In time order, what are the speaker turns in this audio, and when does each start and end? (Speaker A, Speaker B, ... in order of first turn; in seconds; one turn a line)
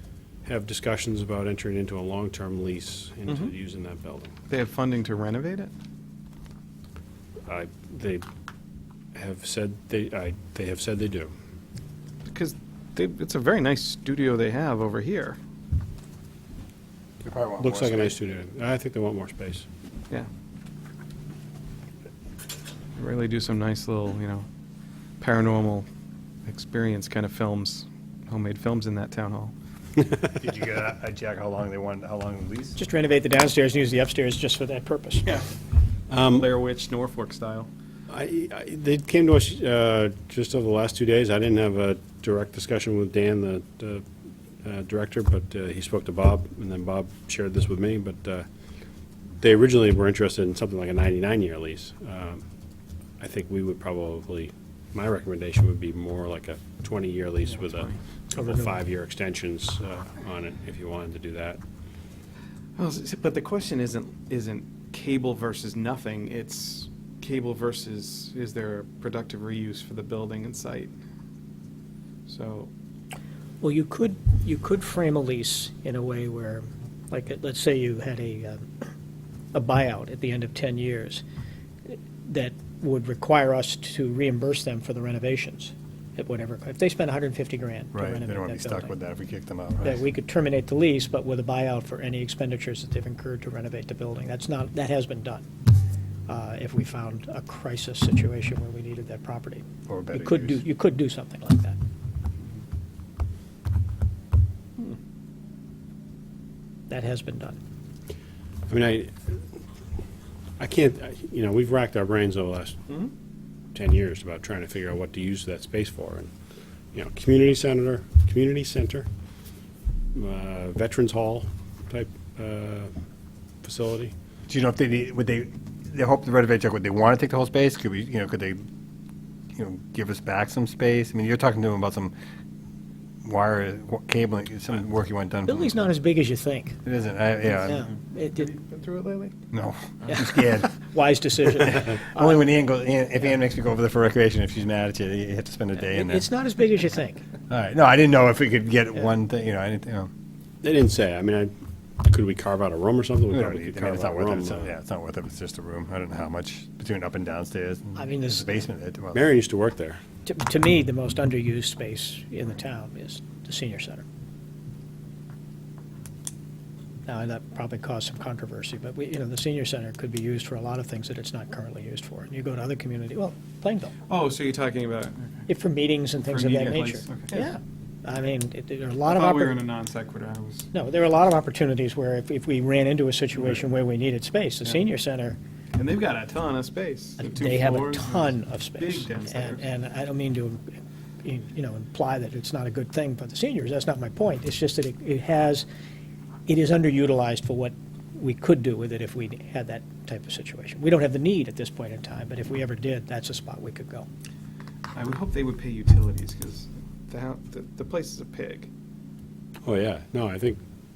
Speaker A: 0.4-4.3
Speaker B: 3.3-3.5
Speaker B: 4.5-5.7
Speaker A: 7.5-8.2
Speaker A: 9.1-11.3
Speaker B: 12.2-15.4
Speaker C: 17.2-18.1
Speaker A: 17.6-19.6
Speaker B: 22.9-24.5
Speaker B: 25.2-25.9
Speaker B: 26.4-29.5
Speaker C: 30.3-32.8
Speaker D: 32.8-35.3
Speaker B: 35.2-35.5
Speaker A: 36.1-36.5
Speaker B: 36.2-37.7
Speaker A: 38.1-44.0
Speaker A: 44.6-48.5
Speaker A: 49.4-52.4
Speaker A: 53.2-61.6
Speaker D: 58.3-58.8
Speaker B: 62.8-70.9
Speaker B: 72.3-72.7
Speaker D: 73.6-78.8
Speaker D: 79.5-81.2
Speaker D: 81.9-88.9
Speaker C: 87.9-90.0
Speaker D: 89.8-95.5
Speaker D: 96.3-101.8
Speaker C: 99.8-100.7
Speaker D: 106.9-107.6
Speaker A: 108.7-109.4
Speaker A: 110.6-112.9
Speaker A: 113.7-116.3
Speaker A: 116.9-119.1
Speaker A: 120.1-122.9
Speaker A: 123.6-124.1
Speaker C: 124.5-128.6
Speaker C: 129.6-132.1
Speaker C: 133.2-135.7
Speaker D: 135.4-136.8
Speaker C: 136.8-137.8
Speaker D: 137.6-138.5
Speaker B: 138.2-139.3
Speaker C: 139.5-140.8
Speaker D: 140.1-142.4
Speaker C: 141.5-146.3
Speaker D: 145.8-147.2
Speaker C: 147.5-150.1
Speaker A: 150.6-151.5
Speaker A: 152.0-154.7
Speaker C: 153.3-159.2
Speaker D: 157.9-158.5
Speaker A: 159.1-160.0
Speaker D: 160.2-164.0
Speaker D: 167.1-173.9
Speaker B: 174.1-175.4
Speaker D: 175.5-179.6
Speaker B: 176.2-177.6
Speaker B: 179.0-180.7
Speaker D: 180.7-185.4
Speaker B: 185.7-189.7
Speaker D: 187.2-190.6
Speaker D: 191.2-195.7
Speaker D: 196.5-204.1
Speaker B: 204.9-208.7
Speaker A: 209.6-210.6